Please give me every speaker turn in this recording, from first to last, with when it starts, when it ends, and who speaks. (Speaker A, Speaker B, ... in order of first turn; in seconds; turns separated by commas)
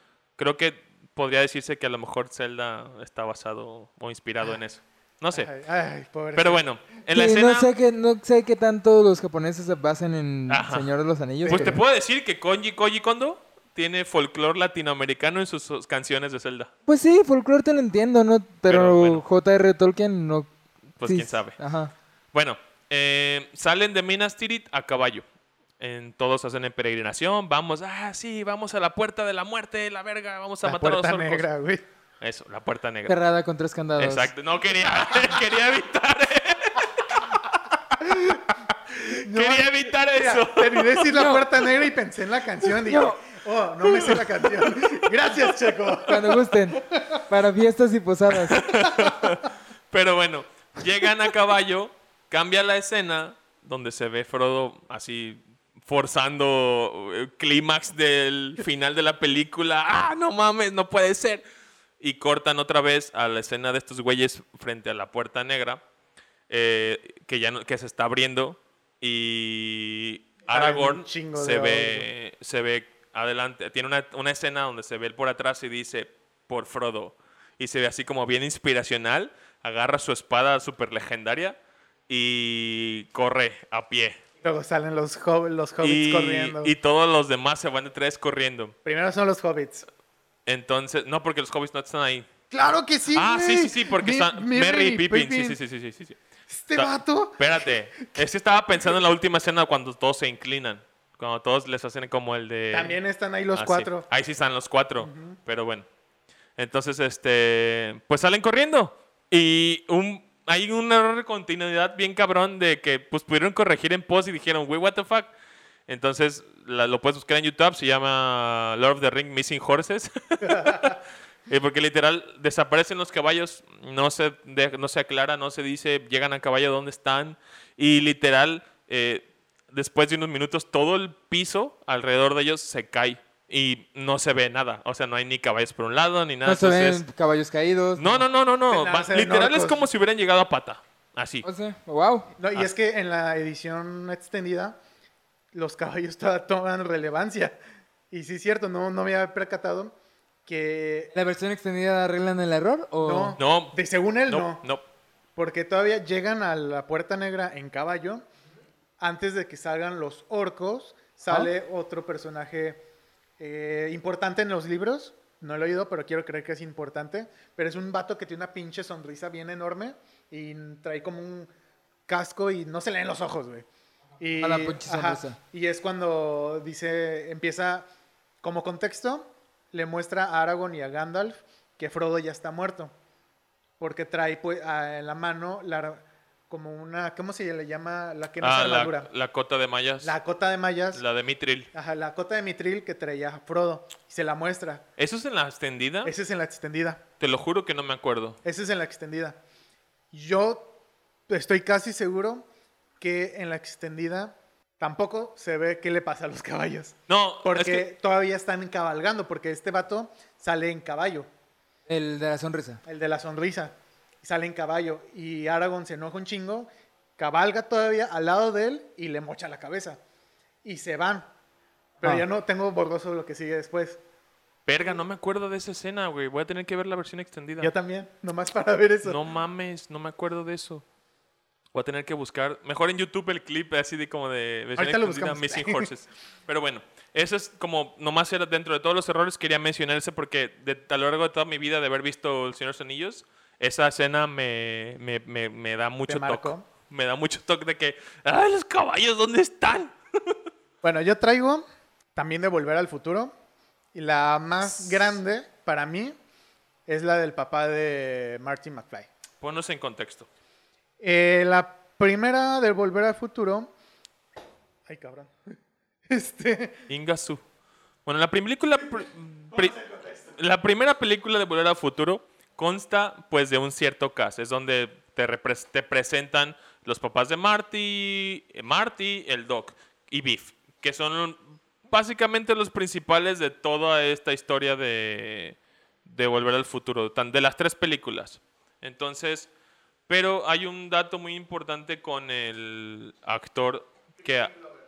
Speaker A: 0.4-5.5, Speaker B: 5.3-6.6, Speaker A: 6.3-7.7, Speaker C: 7.1-11.8, Speaker A: 10.5-16.7, Speaker B: 11.4-11.8, Speaker C: 16.9-20.5, Speaker A: 18.7-19.2, Speaker A: 21.0-21.6, Speaker C: 21.0-21.9, Speaker A: 22.3-25.2, Speaker A: 25.8-31.4, Speaker B: 30.6-31.8, Speaker A: 32.2-33.2, Speaker C: 33.1-34.3, Speaker A: 34.0-37.6, Speaker B: 38.0-47.2, Speaker A: 38.9-41.4, Speaker C: 41.1-41.4, Speaker C: 42.8-43.2, Speaker A: 43.8-45.4, Speaker C: 46.1-48.7, Speaker A: 48.3-61.4, Speaker B: 48.9-49.1, Speaker A: 62.0-65.8, Speaker A: 66.5-81.6, Speaker B: 70.5-72.1, Speaker A: 82.1-84.2, Speaker B: 84.4-86.7, Speaker A: 85.8-88.7, Speaker B: 88.8-89.9, Speaker A: 90.5-92.3, Speaker B: 92.5-95.6, Speaker A: 93.1-96.2, Speaker B: 96.5-98.2, Speaker A: 96.7-103.0, Speaker B: 102.7-104.1, Speaker A: 103.5-105.8, Speaker B: 105.0-105.4, Speaker A: 106.6-115.3, Speaker A: 115.9-137.0, Speaker B: 120.5-120.9, Speaker C: 136.4-138.2, Speaker A: 137.9-141.4, Speaker B: 138.7-139.8, Speaker C: 141.4-142.3, Speaker B: 142.4-144.8, Speaker B: 145.5-147.6, Speaker B: 148.1-149.9, Speaker B: 150.4-151.1, Speaker C: 151.1-153.4, Speaker B: 153.0-154.6, Speaker A: 153.4-153.8, Speaker A: 154.3-154.8, Speaker B: 155.3-158.2, Speaker B: 159.0-162.8, Speaker B: 163.4-171.5, Speaker B: 172.1-173.7, Speaker B: 174.2-177.8, Speaker C: 174.4-175.4, Speaker B: 178.4-182.9, Speaker B: 183.8-189.1, Speaker A: 188.4-190.1, Speaker B: 190.0-191.0, Speaker A: 190.9-191.7, Speaker B: 191.7-194.8, Speaker A: 195.0-196.1, Speaker B: 196.0-197.0, Speaker A: 197.2-198.4, Speaker B: 198.4-199.4, Speaker B: 200.1-200.7, Speaker B: 201.3-202.4, Speaker B: 203.0-211.3, Speaker A: 207.1-207.9, Speaker C: 211.9-212.8, Speaker B: 212.8-220.0, Speaker B: 220.6-221.3, Speaker B: 222.0-224.0, Speaker A: 224.7-227.7, Speaker B: 227.6-229.2, Speaker A: 229.0-230.8, Speaker A: 231.7-250.4, Speaker B: 234.8-235.9, Speaker B: 246.1-246.7, Speaker B: 250.8-251.6, Speaker B: 252.2-253.3, Speaker B: 253.9-256.1, Speaker B: 256.9-259.1, Speaker A: 259.4-260.3, Speaker B: 261.0-263.7, Speaker B: 264.9-265.5, Speaker B: 266.1-266.8, Speaker A: 266.9-267.4, Speaker A: 268.1-269.8, Speaker B: 269.5-270.3, Speaker A: 270.4-289.5, Speaker A: 290.1-294.6